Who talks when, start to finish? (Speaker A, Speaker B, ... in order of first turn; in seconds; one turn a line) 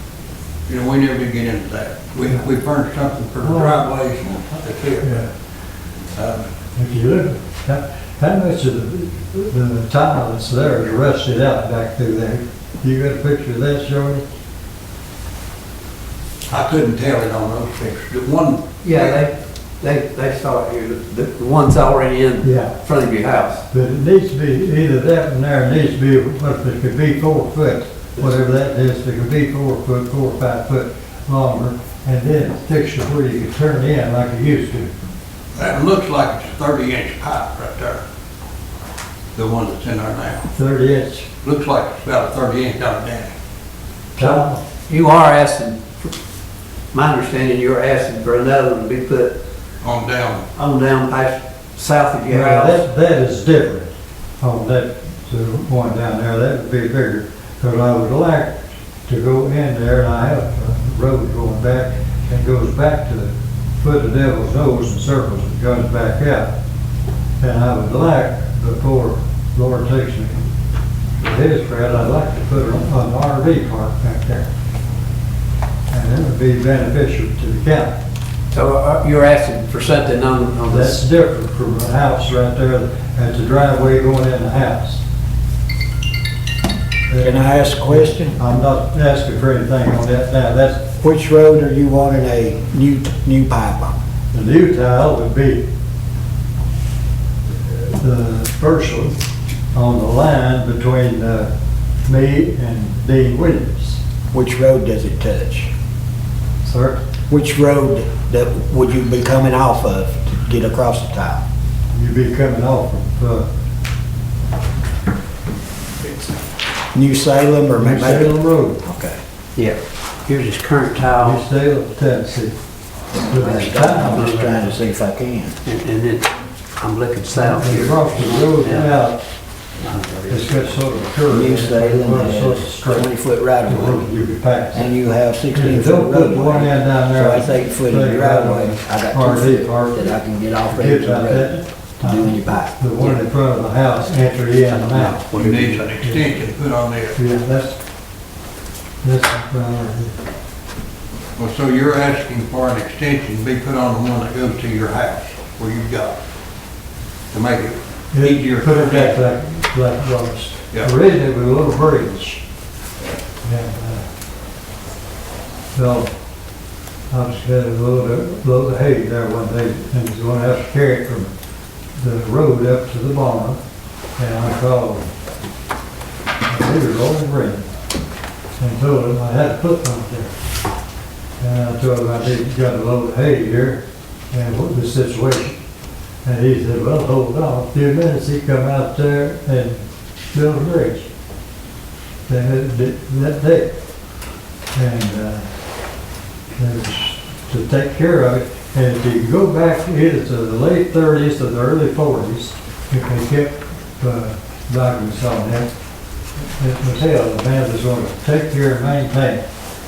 Speaker A: 0.7-5.2
Speaker B: 3.4-3.9
Speaker B: 5.0-5.3
Speaker A: 6.1-6.5
Speaker B: 6.8-14.2
Speaker A: 16.5-19.2
Speaker C: 18.8-23.6
Speaker B: 22.4-22.7
Speaker B: 23.7-34.9
Speaker A: 35.5-38.0
Speaker A: 39.4-40.5
Speaker B: 40.5-41.3
Speaker A: 41.4-43.4
Speaker B: 44.2-44.6
Speaker C: 44.2-46.1
Speaker C: 46.9-49.3
Speaker A: 49.8-50.5
Speaker C: 50.5-52.8
Speaker B: 52.3-66.5
Speaker B: 67.4-70.4
Speaker B: 71.2-74.5
Speaker B: 75.9-77.9
Speaker C: 78.5-81.1
Speaker B: 80.7-85.0
Speaker B: 87.1-91.0
Speaker D: 87.2-88.4
Speaker D: 91.0-94.0
Speaker B: 94.3-95.6
Speaker B: 97.7-99.2
Speaker B: 99.7-101.5
Speaker B: 102.0-104.0
Speaker D: 104.3-105.7
Speaker B: 106.6-107.0
Speaker D: 107.3-111.4
Speaker B: 111.9-113.5
Speaker D: 116.9-119.2
Speaker B: 117.7-118.8
Speaker C: 119.6-121.4
Speaker B: 121.2-122.5
Speaker B: 123.3-124.7
Speaker D: 123.3-125.6
Speaker C: 124.0-124.5
Speaker C: 125.7-129.1
Speaker B: 127.3-129.2
Speaker C: 129.8-130.7
Speaker B: 130.3-133.1
Speaker D: 131.3-134.1
Speaker B: 133.7-134.9
Speaker D: 134.7-142.7
Speaker B: 135.5-140.1
Speaker B: 140.7-145.2
Speaker C: 143.0-143.2
Speaker C: 144.0-145.9
Speaker A: 145.3-147.2
Speaker B: 146.0-146.3
Speaker B: 147.2-147.8
Speaker B: 149.0-150.2
Speaker A: 151.4-156.2
Speaker A: 157.3-159.2
Speaker B: 158.1-162.4
Speaker B: 163.4-164.1
Speaker B: 165.7-166.1
Speaker B: 167.1-171.3
Speaker B: 172.0-173.6
Speaker B: 174.2-175.1
Speaker B: 176.5-177.7
Speaker B: 178.6-180.3
Speaker B: 181.4-183.8
Speaker B: 184.3-185.6
Speaker B: 186.2-191.1
Speaker B: 192.3-193.7
Speaker B: 194.8-195.5
Speaker B: 196.6-205.7
Speaker B: 206.6-209.4